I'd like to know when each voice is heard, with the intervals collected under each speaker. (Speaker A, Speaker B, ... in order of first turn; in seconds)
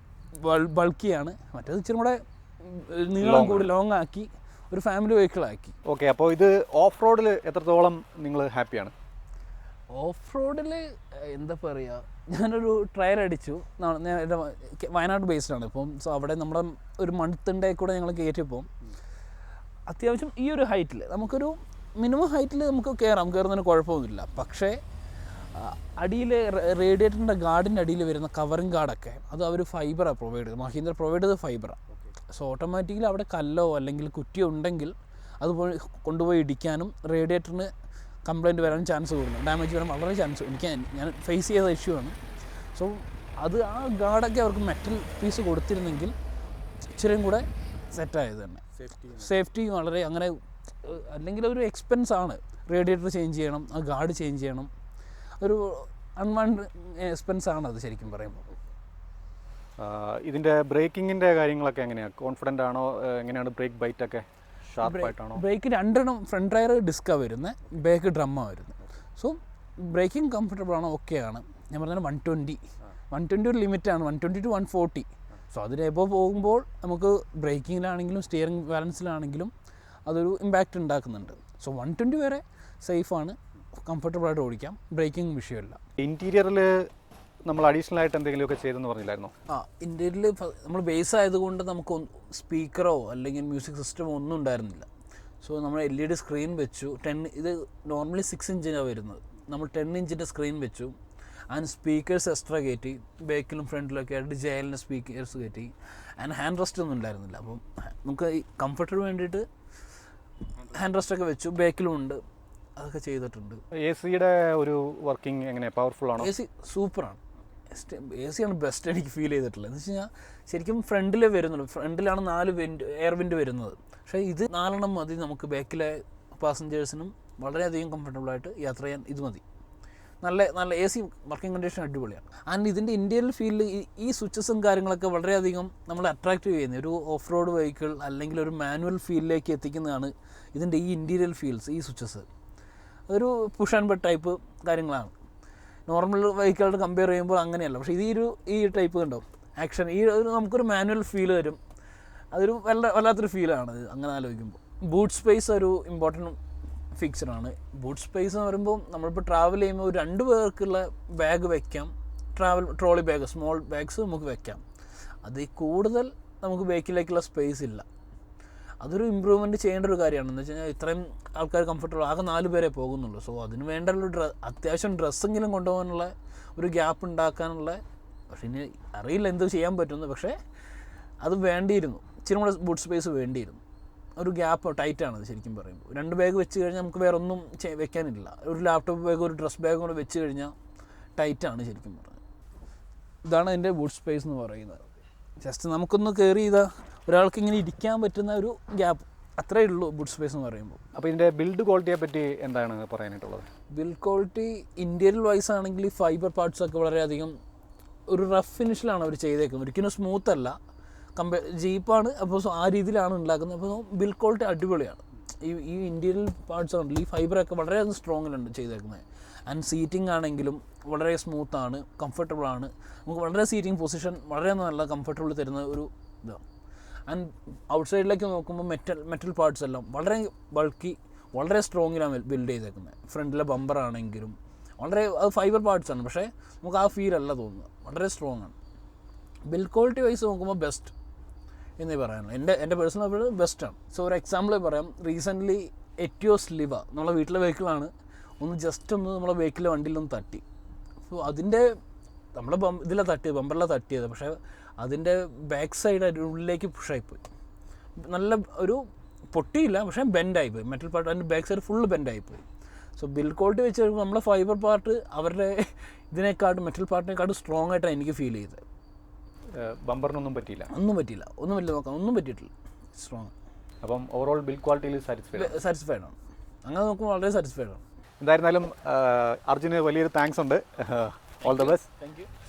Speaker A: 0.4-5.7, 9.9-18.7, 19.9-24.8, 25.5-37.7, 38.2-42.2, 42.7-46.1, 46.9-54.7, 55.4-58.5, 64.8-79.5, 80.1-85.8, 89.5-94.9, 95.4-100.9, 101.5-109.5, 110.6-112.2, 112.8-113.6, 116.2-129.4, 130.2-142.2, 143.1-145.1, 145.9-151.6, 152.3-156.4, 156.9-164.6, 165.2-167.8, 168.8-180.3, 181.2-183.6, 184.2-190.5, 191.2-192.2, 193.2-194.8, 195.4-200.8, 203.7-207.3, 208.1-210.6, 211.2-226.4, 227.1-238.5, 239.5-240.9, 241.8-250.4, 251.1-251.7, 252.3-257.2, 258.0-262.4, 263.0-268.6, 270.7-273.3, 275.3-277.8, 281.4-282.3
Speaker B: 3.2-3.7, 5.8-8.9, 48.8-49.2, 59.8-65.4, 86.0-86.9, 87.5-89.3, 113.8-116.3, 200.9-203.4, 269.5-270.7, 273.8-275.6, 278.2-281.9